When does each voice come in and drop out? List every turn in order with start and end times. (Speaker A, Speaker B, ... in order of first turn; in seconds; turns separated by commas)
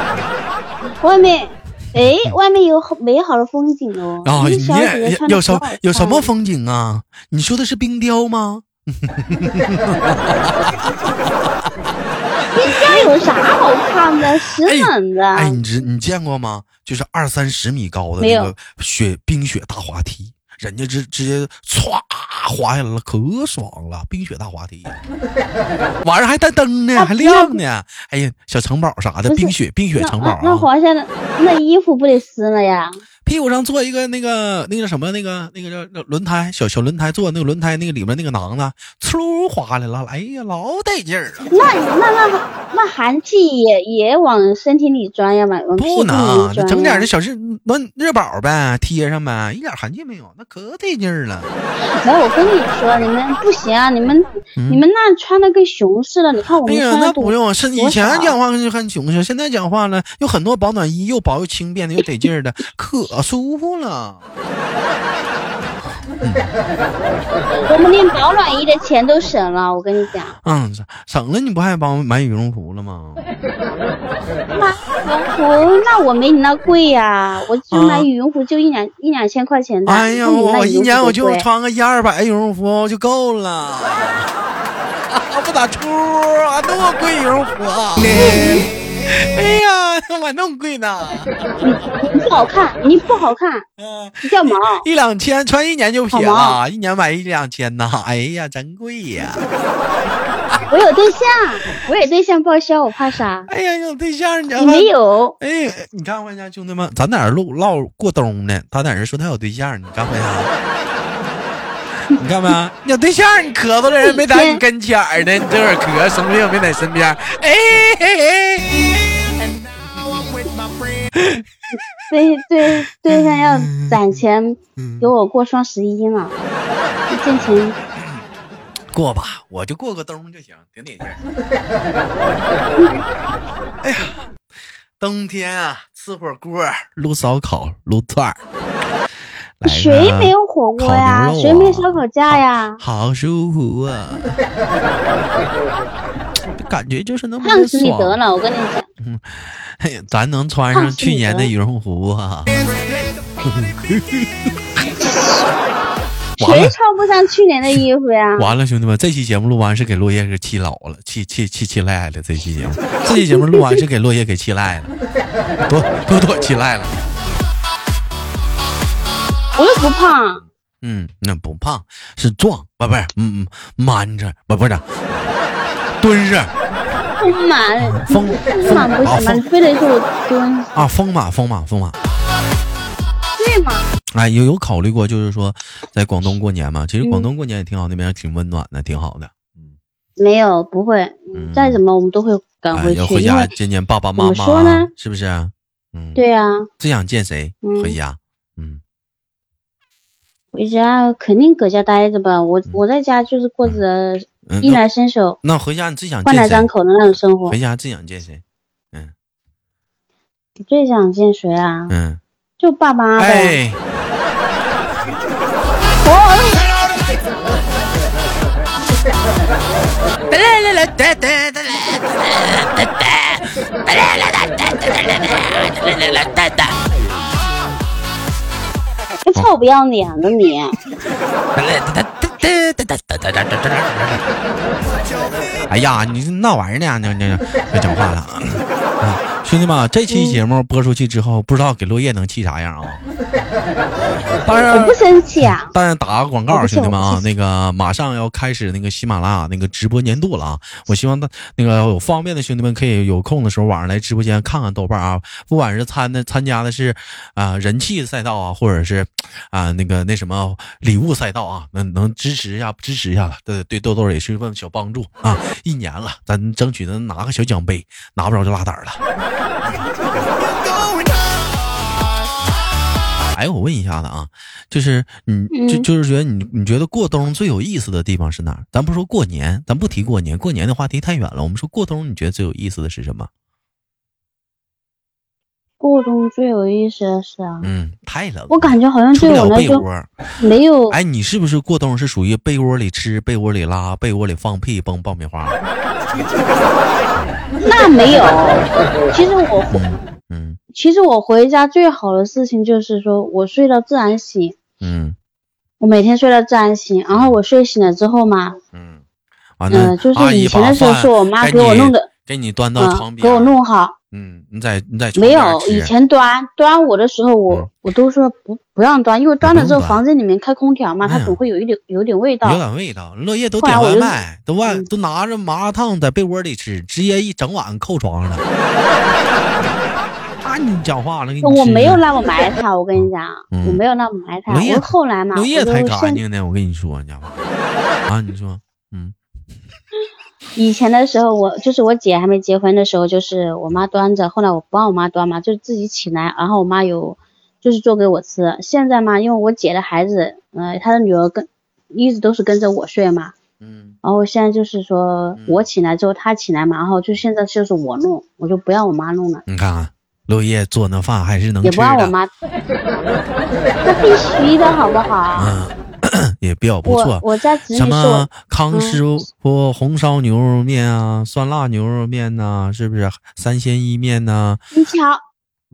Speaker A: 1.0-6.3, Speaker B: 4.2-11.7, Speaker A: 12.5-15.6, Speaker B: 12.7-13.1, Speaker B: 14.6-25.0, Speaker A: 18.2-18.5, Speaker B: 26.0-30.7, Speaker A: 26.9-27.6, Speaker A: 29.3-33.0, Speaker B: 33.2-41.5, Speaker A: 41.5-47.1, Speaker B: 45.8-51.5, Speaker A: 51.9-58.3, Speaker B: 54.6-54.8, Speaker B: 56.6-64.2, Speaker B: 66.2-66.5, Speaker A: 67.6-70.3, Speaker B: 70.4-73.2, Speaker A: 74.5-81.5, Speaker B: 77.7-78.1, Speaker B: 79.8-84.3, Speaker B: 85.1-91.3, Speaker A: 88.1-88.7, Speaker A: 91.6-93.7, Speaker B: 93.8-99.5, Speaker A: 94.2-94.8, Speaker A: 96.1-96.6, Speaker A: 100.7-103.5, Speaker B: 103.5-110.5, Speaker A: 104.6-105.4, Speaker B: 112.2-118.9, Speaker A: 114.0-114.6, Speaker B: 120.0-120.2, Speaker B: 121.1-121.4, Speaker A: 122.1-126.4, Speaker B: 123.1-124.0, Speaker B: 124.8-125.1, Speaker A: 127.1-127.8, Speaker B: 127.3-128.2, Speaker B: 128.9-131.2, Speaker B: 133.8-134.2, Speaker B: 135.0-138.4, Speaker B: 139.6-144.4, Speaker A: 139.6-142.8, Speaker B: 146.6-148.2, Speaker A: 147.4-148.9, Speaker B: 149.0-152.5, Speaker A: 150.7-151.5, Speaker B: 153.4-154.5, Speaker A: 156.4-158.5, Speaker B: 156.4-156.7, Speaker B: 158.4-164.9, Speaker A: 163.0-163.8, Speaker B: 165.6-167.0, Speaker A: 169.6-170.4, Speaker B: 170.8-174.9, Speaker B: 176.0-176.5, Speaker A: 177.2-180.9, Speaker B: 177.8-179.4, Speaker B: 180.7-182.0, Speaker A: 183.4-183.9, Speaker B: 184.1-189.7, Speaker A: 187.0-187.3, Speaker A: 190.2-193.5, Speaker B: 191.3-191.8, Speaker B: 192.7-196.2, Speaker A: 194.2-194.9, Speaker A: 196.2-196.7, Speaker B: 196.8-198.8, Speaker A: 197.6-197.9, Speaker A: 200.5-205.4, Speaker B: 204.4-204.8, Speaker B: 205.4-209.1, Speaker A: 206.2-207.6, Speaker A: 210.6-211.9, Speaker B: 211.9-212.2, Speaker A: 212.6-213.6, Speaker B: 213.2-213.8, Speaker A: 216.0-216.7, Speaker B: 220.3-221.9, Speaker B: 224.1-224.8, Speaker B: 225.9-226.4, Speaker A: 229.2-230.8, Speaker B: 231.6-234.2, Speaker B: 235.7-243.0, Speaker A: 240.1-240.4, Speaker B: 244.3-269.0, Speaker A: 244.7-245.7, Speaker A: 246.5-247.3, Speaker B: 273.3-283.3, Speaker A: 275.5-275.9, Speaker A: 285.8-287.7, Speaker B: 287.6-290.1, Speaker A: 288.5-289.8, Speaker A: 290.4-291.0, Speaker B: 290.9-295.6, Speaker A: 297.6-299.8, Speaker B: 299.7-300.6, Speaker A: 300.7-304.6, Speaker B: 304.8-305.2, Speaker A: 305.8-308.6, Speaker B: 307.1-307.4, Speaker B: 308.7-309.0, Speaker B: 309.6-313.6, Speaker A: 309.7-312.1, Speaker A: 312.8-313.9, Speaker B: 314.1-315.9, Speaker A: 315.1-322.6, Speaker B: 319.4-320.0, Speaker B: 321.1-321.4, Speaker B: 322.4-328.4, Speaker A: 323.6-324.9, Speaker B: 330.4-332.0, Speaker A: 331.4-336.2, Speaker B: 332.9-333.8, Speaker B: 334.5-337.4, Speaker B: 338.1-339.1, Speaker A: 340.6-353.4, Speaker B: 353.6-353.9, Speaker A: 354.0-359.4, Speaker B: 355.4-355.7, Speaker B: 359.5-362.1, Speaker A: 361.6-362.3, Speaker A: 363.8-365.6, Speaker B: 365.3-374.6, Speaker A: 366.8-369.0, Speaker A: 374.7-375.2